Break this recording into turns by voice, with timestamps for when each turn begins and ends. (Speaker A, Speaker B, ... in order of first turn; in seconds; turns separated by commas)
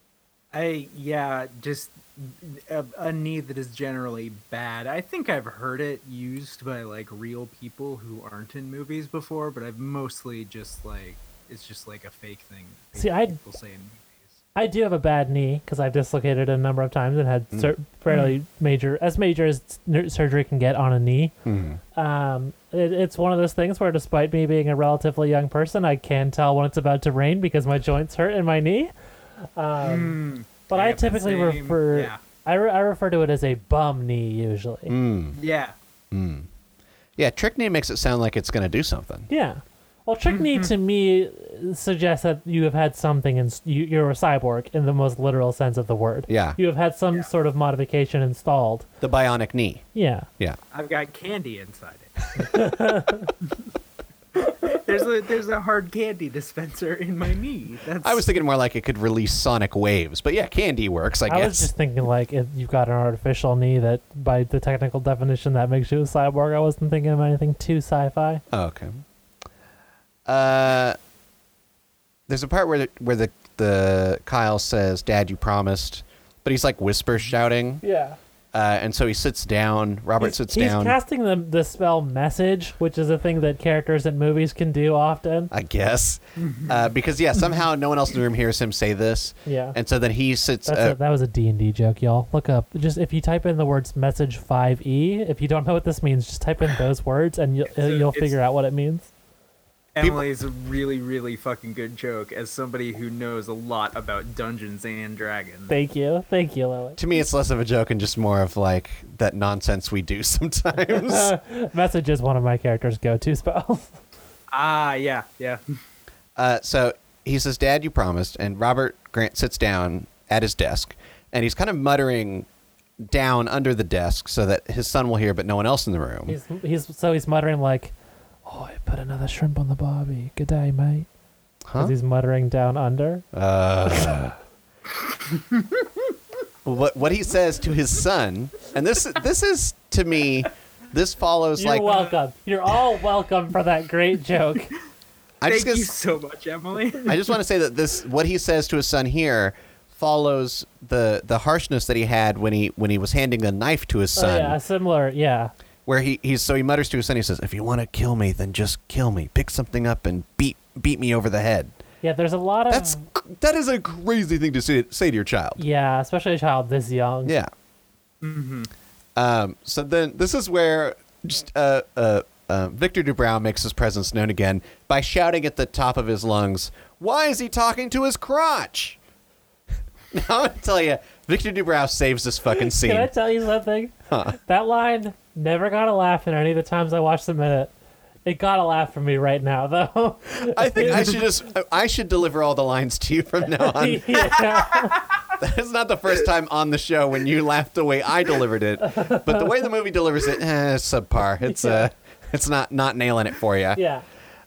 Speaker A: 0.5-14.4, Speaker B: 12.9-13.4, Speaker B: 14.6-21.3, Speaker A: 18.1-18.4, Speaker C: 21.4-21.8, Speaker B: 21.9-28.9, Speaker B: 29.6-30.2, Speaker A: 29.8-32.2, Speaker B: 30.7-35.0, Speaker C: 34.9-35.4, Speaker A: 35.4-35.7, Speaker C: 36.1-36.5, Speaker C: 37.2-39.3, Speaker B: 39.3-48.9, Speaker A: 40.3-40.7, Speaker C: 46.3-46.6, Speaker C: 49.0-49.8, Speaker B: 49.9-50.3, Speaker A: 50.7-52.3, Speaker B: 52.4-53.3, Speaker A: 54.4-58.3, Speaker C: 58.0-61.7, Speaker B: 61.3-68.4, Speaker C: 68.5-69.0, Speaker C: 70.3-71.0, Speaker C: 72.3-77.8, Speaker B: 77.8-78.2, Speaker C: 78.5-81.0, Speaker B: 80.2-85.5, Speaker C: 85.5-91.0, Speaker A: 86.4-86.9, Speaker B: 89.5-89.8, Speaker B: 90.7-99.1, Speaker A: 97.7-98.4, Speaker A: 100.0-105.7, Speaker C: 100.0-100.2, Speaker B: 105.7-107.0, Speaker C: 107.0-111.3, Speaker B: 110.8-114.0, Speaker A: 114.5-115.6, Speaker C: 116.4-122.5, Speaker C: 123.0-126.4, Speaker B: 126.3-127.9, Speaker B: 128.4-131.1, Speaker C: 131.7-131.9, Speaker B: 131.8-133.3, Speaker C: 133.3-134.4, Speaker C: 136.7-141.9, Speaker B: 141.6-144.7, Speaker C: 145.4-145.9, Speaker A: 145.5-147.2, Speaker C: 147.1-154.6, Speaker B: 154.2-155.5, Speaker C: 155.9-161.7, Speaker B: 162.0-163.1, Speaker C: 162.7-165.6, Speaker B: 165.6-167.4, Speaker A: 168.2-168.7, Speaker C: 169.2-179.0, Speaker C: 180.1-183.1, Speaker B: 182.6-187.7, Speaker C: 184.1-184.4, Speaker B: 188.3-191.2, Speaker C: 190.3-194.3, Speaker B: 193.5-195.0, Speaker A: 194.7-195.0, Speaker C: 195.4-203.8, Speaker B: 198.8-199.4, Speaker B: 201.4-201.9, Speaker B: 203.8-204.0